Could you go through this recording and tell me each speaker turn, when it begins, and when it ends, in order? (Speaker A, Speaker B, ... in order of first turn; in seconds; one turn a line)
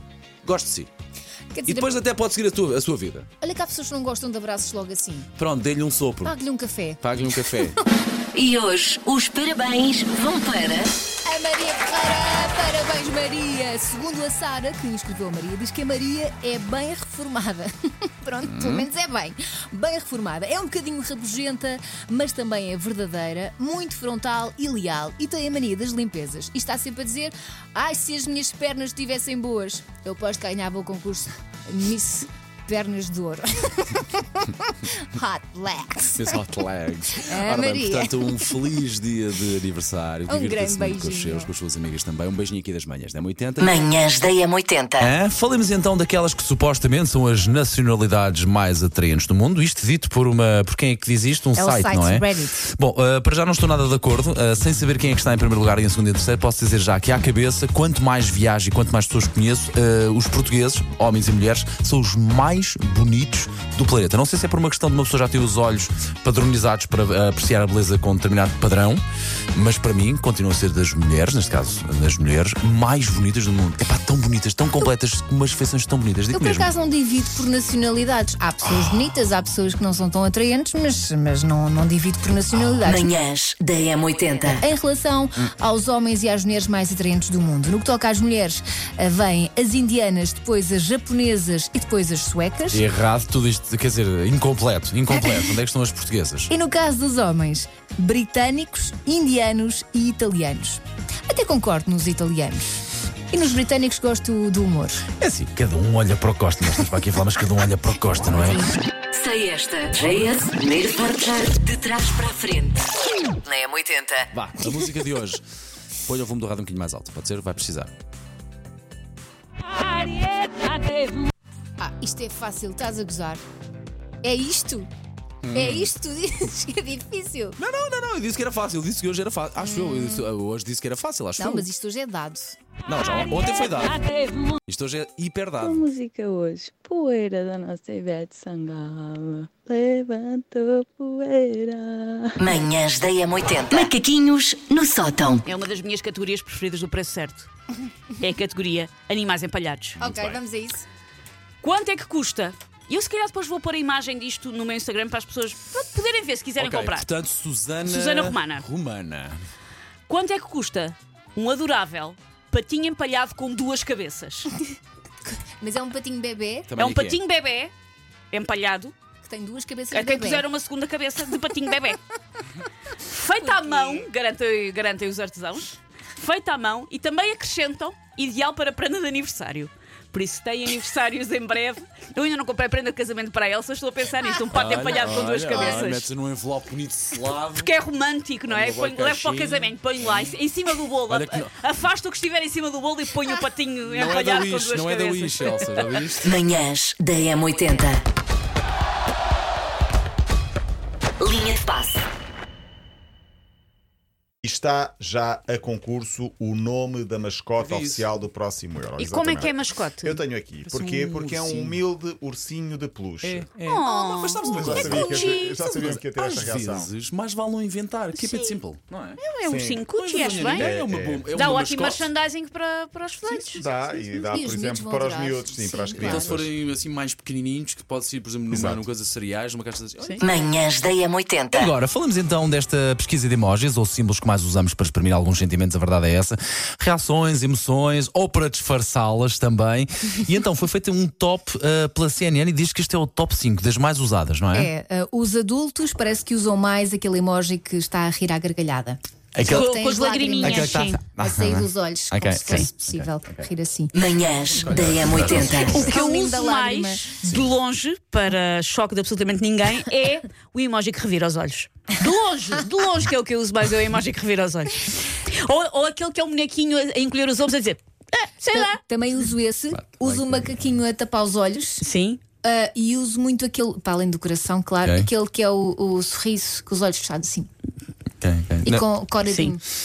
Speaker A: 0.4-0.9
Speaker B: 1.5-2.0
Speaker A: 1.7-3.3
Speaker B: 3.4-5.3
Speaker A: 5.4-6.3
Speaker B: 6.2-7.8
Speaker A: 7.0-7.8
Speaker C: 8.3-10.9
Speaker B: 11.2-36.4
Speaker A: 18.5-18.9
Speaker A: 36.2-43.9
Speaker B: 37.2-38.6
Speaker B: 40.3-41.5
Speaker C: 43.6-45.1
Speaker A: 45.0-69.0
Speaker B: 51.5-52.6
Speaker A: 69.5-76.7
Speaker B: 76.3-83.1
Speaker C: 82.8-84.7
Speaker B: 84.5-92.8
Speaker A: 92.7-96.5
Speaker B: 96.5-102.7
Speaker B: 103.3-105.0
Speaker A: 105.2-108.7
Speaker C: 109.1-112.8
Speaker C: 113.4-114.3
Speaker A: 114.3-115.4
Speaker A: 116.0-117.9
Speaker B: 121.8-123.4
Speaker B: 124.2-124.9
Speaker A: 125.4-125.9
Speaker B: 125.5-127.6
Speaker A: 127.6-131.7
Speaker B: 131.4-132.6
Speaker A: 132.8-134.0
Speaker A: 134.7-135.8
Speaker D: 135.6-142.4
Speaker C: 142.4-145.5
Speaker E: 145.5-147.5
Speaker E: 148.2-150.0
Speaker A: 150.0-150.4
Speaker B: 150.0-150.8
Speaker E: 151.6-157.1
Speaker A: 156.6-159.4
Speaker E: 157.8-158.7
Speaker E: 160.1-164.5
Speaker B: 165.6-166.7
Speaker A: 166.7-167.2
Speaker E: 166.8-167.7
Speaker E: 168.3-168.9
Speaker B: 169.2-170.5
Speaker E: 169.9-172.0
Speaker E: 173.1-186.1
Speaker B: 173.4-174.0
Speaker A: 184.5-187.7
Speaker E: 187.6-196.1
Speaker A: 188.5-190.4
Speaker A: 191.0-191.6
Speaker A: 193.8-196.4
Speaker C: 196.2-198.0
Speaker C: 201.2-202.0
Speaker F: 204.4-213.5
Speaker A: 207.6-208.2
Speaker E: 209.0-210.2
Speaker A: 210.6-211.8
Speaker A: 213.2-219.2
Speaker E: 213.7-215.8
Speaker F: 214.5-216.9
Speaker E: 218.1-218.6
Speaker E: 219.2-220.7
Speaker F: 219.4-219.9
Speaker A: 219.8-222.1
Speaker F: 220.5-221.4
Speaker E: 221.3-223.6
Speaker F: 223.5-226.5
Speaker B: 223.7-226.5
Speaker A: 226.0-230.3
Speaker F: 228.5-228.9
Speaker C: 230.2-231.8
Speaker A: 231.5-244.7
Speaker B: 244.5-253.9
Speaker A: 249.4-249.7
Speaker E: 249.4-251.0
Speaker A: 250.4-253.5
Speaker C: 253.9-255.8
Speaker F: 254.6-255.9
Speaker A: 254.6-255.7
Speaker B: 255.2-257.2
Speaker E: 255.5-268.8
Speaker B: 268.5-271.9
Speaker A: 269.8-270.6
Speaker E: 271.8-272.2
Speaker B: 272.4-277.5
Speaker A: 274.8-275.1
Speaker A: 278.2-278.9
Speaker B: 278.6-279.6
Speaker E: 279.3-279.6